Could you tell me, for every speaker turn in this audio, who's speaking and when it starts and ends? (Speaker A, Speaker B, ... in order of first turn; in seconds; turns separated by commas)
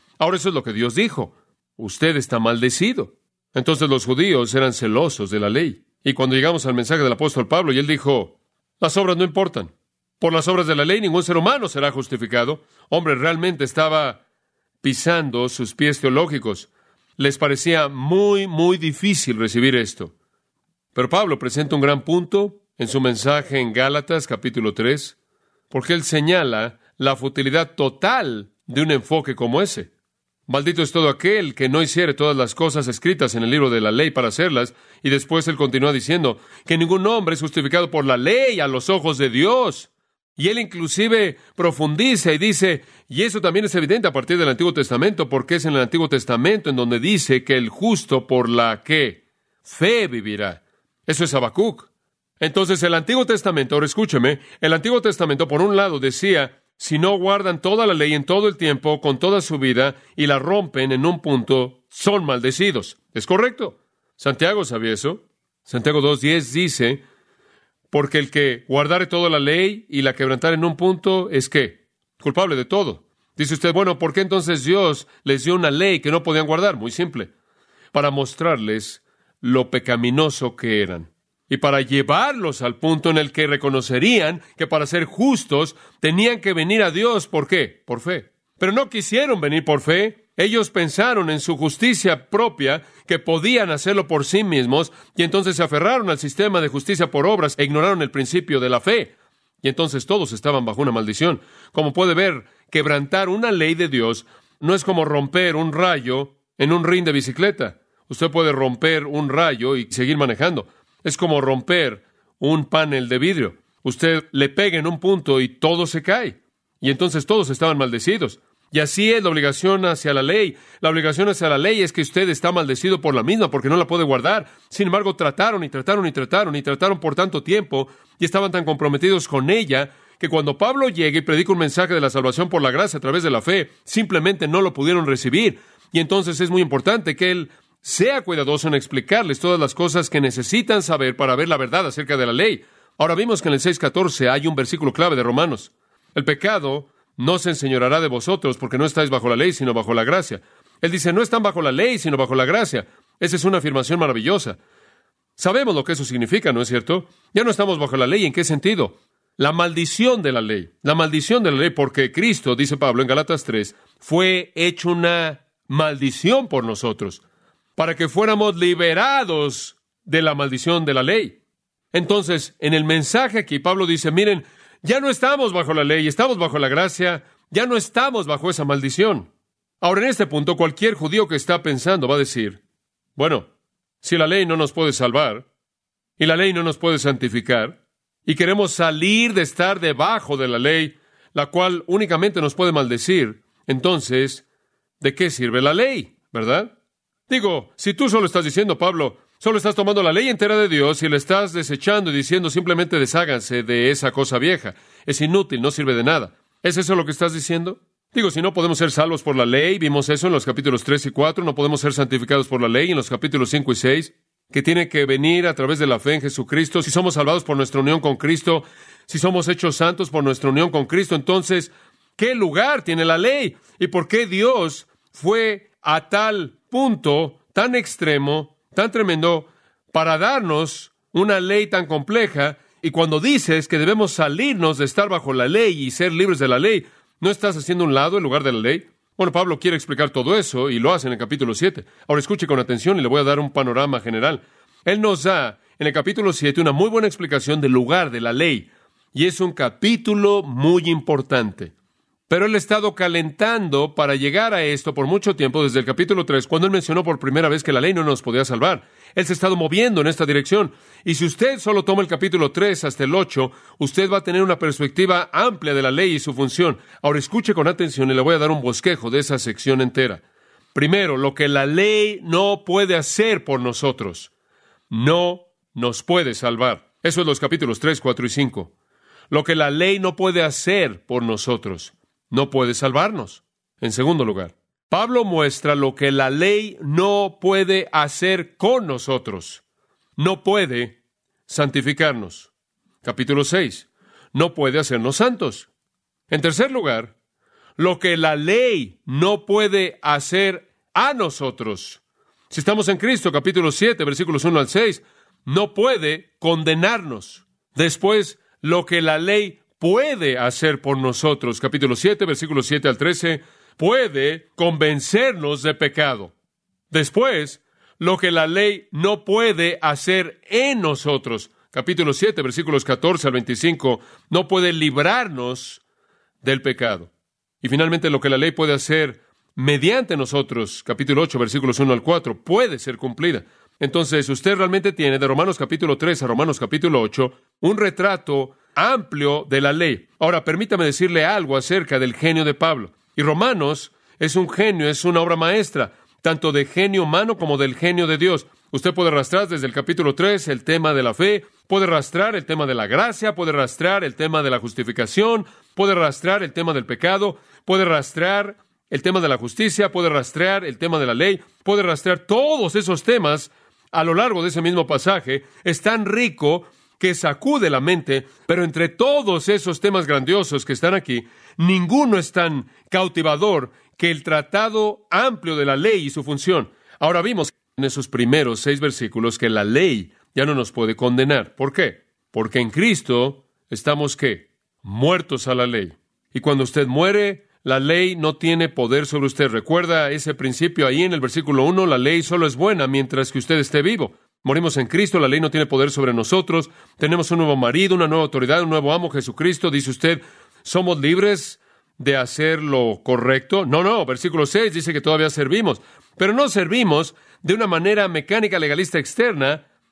Speaker A: 0.2-14.2, Speaker A: 14.8-20.1, Speaker A: 20.9-25.2, Speaker A: 25.7-29.9, Speaker A: 30.5-67.0, Speaker A: 67.9-77.3, Speaker A: 77.9-154.6, Speaker A: 155.4-167.2, Speaker A: 167.8-171.4, Speaker A: 171.9-179.3, Speaker A: 179.8-182.6, Speaker A: 183.2-183.5, Speaker A: 184.0-185.5, Speaker A: 186.2-194.4, Speaker A: 195.0-196.7, Speaker A: 197.3-251.7, Speaker A: 252.3-270.2, Speaker A: 270.8-274.3, Speaker A: 274.9-278.7, Speaker A: 279.3-289.6, Speaker A: 290.2-292.5, Speaker A: 293.0-295.7, Speaker A: 296.3-297.1, Speaker A: 297.8-316.3, Speaker A: 316.9-325.8, Speaker A: 326.4-327.1, Speaker A: 327.6-409.6